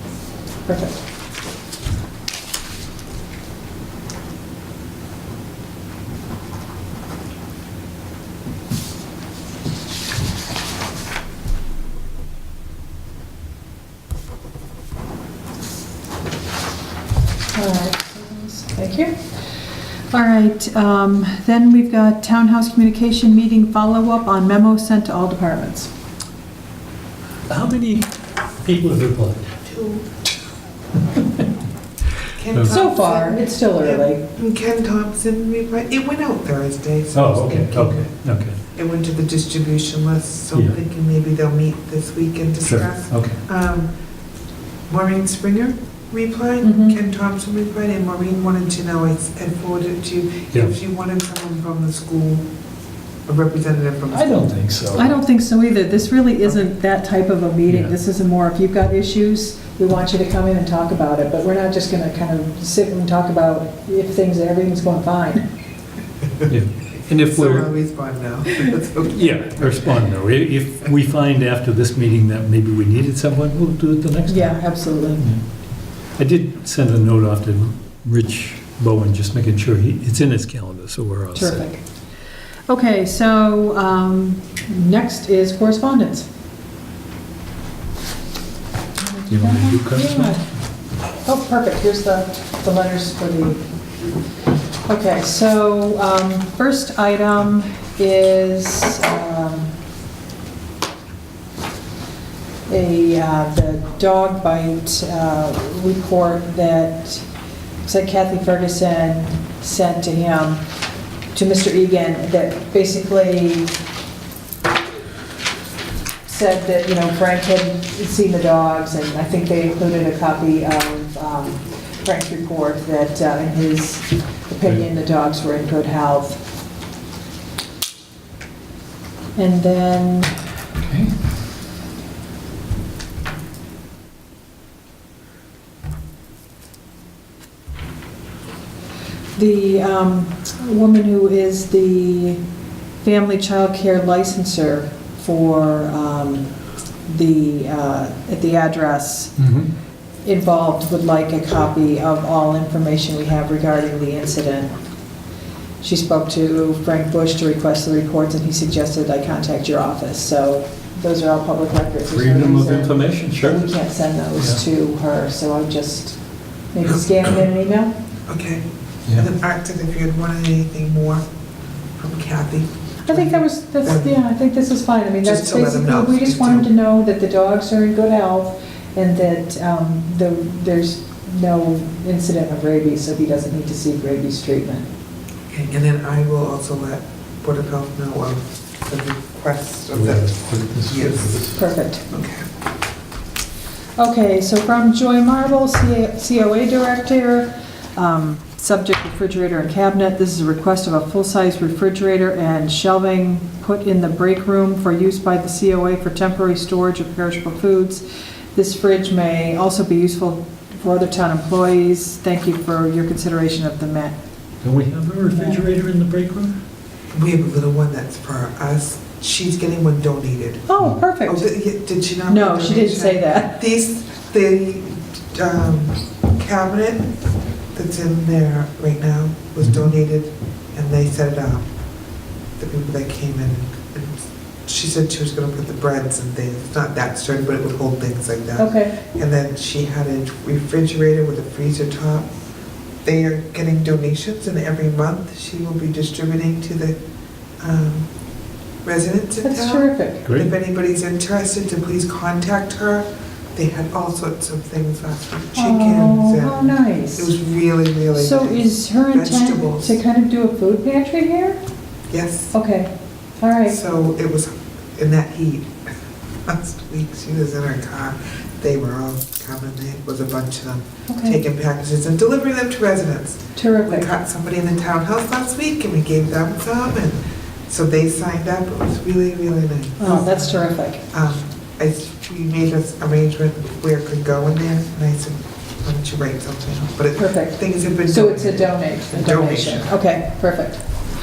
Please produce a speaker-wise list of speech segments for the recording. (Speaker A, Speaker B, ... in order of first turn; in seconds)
Speaker A: 0.7-1.0, 17.5-19.3, 20.1-25.9, 32.7-34.2, 46.6-47.0, 55.0-65.4, 74.3-75.3, 81.3-81.8, 82.7-86.3, 89.0-90.5, 91.2-93.6, 94.8-99.7, 102.7-107.3, 107.8-110.6, 111.3-113.7, 116.3-126.4, 129.4-130.3, 139.3-142.4, 143.0-146.5, 147.1-149.4, 150.2-154.8, 155.8-166.2, 166.7-167.9, 173.1-184.9, 191.6-192.1, 194.0-214.2, 215.3-215.7, 220.7-221.5, 222.3-223.6, 238.6-239.0, 249.4-250.2, 255.6-257.3, 258.1-261.6, 262.5-263.8, 271.1-271.4, 273.6-274.1, 280.0-281.0, 287.2-290.9
Speaker B: 27.5-28.1, 28.6-29.5, 32.5-32.8, 37.1-38.6, 42.6-43.4, 54.1-55.1, 57.7-57.9, 66.5-67.7, 69.1-75.4, 76.2-81.6, 89.3-90.4, 130.8-131.1, 149.4-149.7, 162.1-163.7, 189.9-191.6, 214.6-216.6, 250.2-250.5
Speaker C: 29.6-30.1, 32.3-38.1, 38.7-43.9, 44.9-52.5, 53.3-54.6, 67.3-69.7, 166.8-167.4, 168.3-171.2, 172.0-174.2, 175.2-176.7, 185.5-191.5, 192.1-192.4, 217.1-220.7, 221.3-227.2, 227.7-231.7, 232.6-242.3, 243.0-247.0, 247.6-248.1, 248.8-260.0, 262.1-262.5, 263.7-265.9, 266.4-289.9